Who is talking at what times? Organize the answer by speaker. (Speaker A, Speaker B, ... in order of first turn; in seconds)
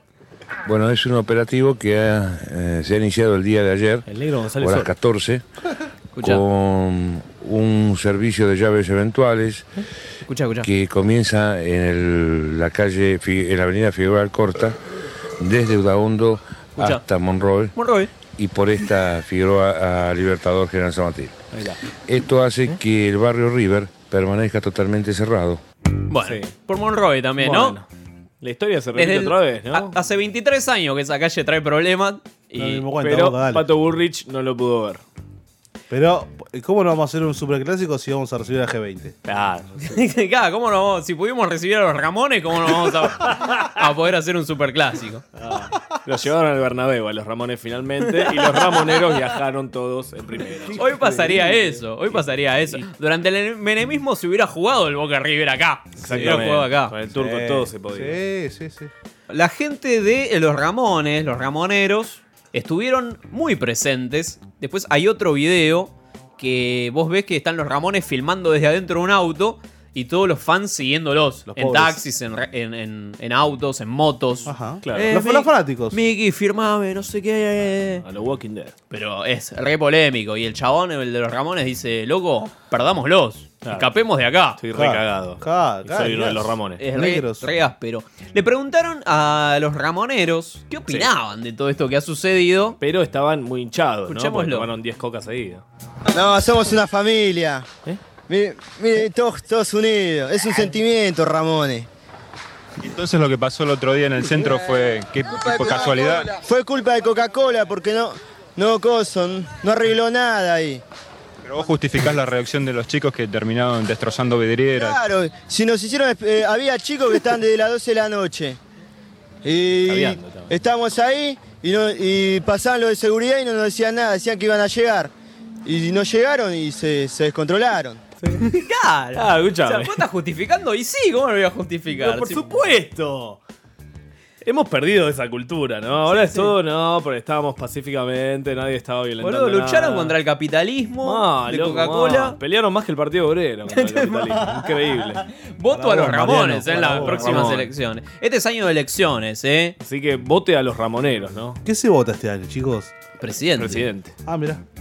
Speaker A: 0.6-4.0, 4.6-5.4, 6.2-9.7, 10.6-14.8, 15.4-17.7, 18.4-21.4, 22.1-25.6
Speaker B: 4.1-4.9, 21.5-21.8, 26.2-26.5, 27.4-27.9, 28.4-29.9, 32.9-35.0, 39.2-40.0, 43.2-43.7, 45.4-51.5, 56.0-58.2, 74.8-75.2, 78.0-78.7, 83.6-83.9, 84.6-86.8, 92.8-95.6, 119.8-120.5, 129.1-130.0, 131.9-133.4, 134.4-140.2, 141.0-145.2, 146.7-147.7, 149.8-151.6, 153.6-154.1
Speaker C: 6.2-6.4, 10.3-10.7, 16.8-17.0, 17.7-18.1, 26.1-27.8, 28.9-32.8, 39.8-45.2, 48.2-49.0, 50.8-56.9, 59.3-78.0, 78.9-84.6, 86.8-92.8, 94.1-94.7, 128.4-132.4, 136.1-136.5, 139.2-142.4, 143.7-144.7, 145.5-149.8, 153.2-153.8
Speaker D: 32.5-33.6, 35.9-39.1, 50.6-51.6, 57.1-58.9, 71.5-72.0, 74.5-76.0, 84.7-87.5, 145.7-147.6, 151.6-152.9, 154.2-154.6
Speaker E: 96.1-97.7, 98.3-101.9, 106.3-110.8, 114.7-118.6, 119.4-125.1, 125.6-128.0
Speaker F: 102.8-106.3, 111.4-115.0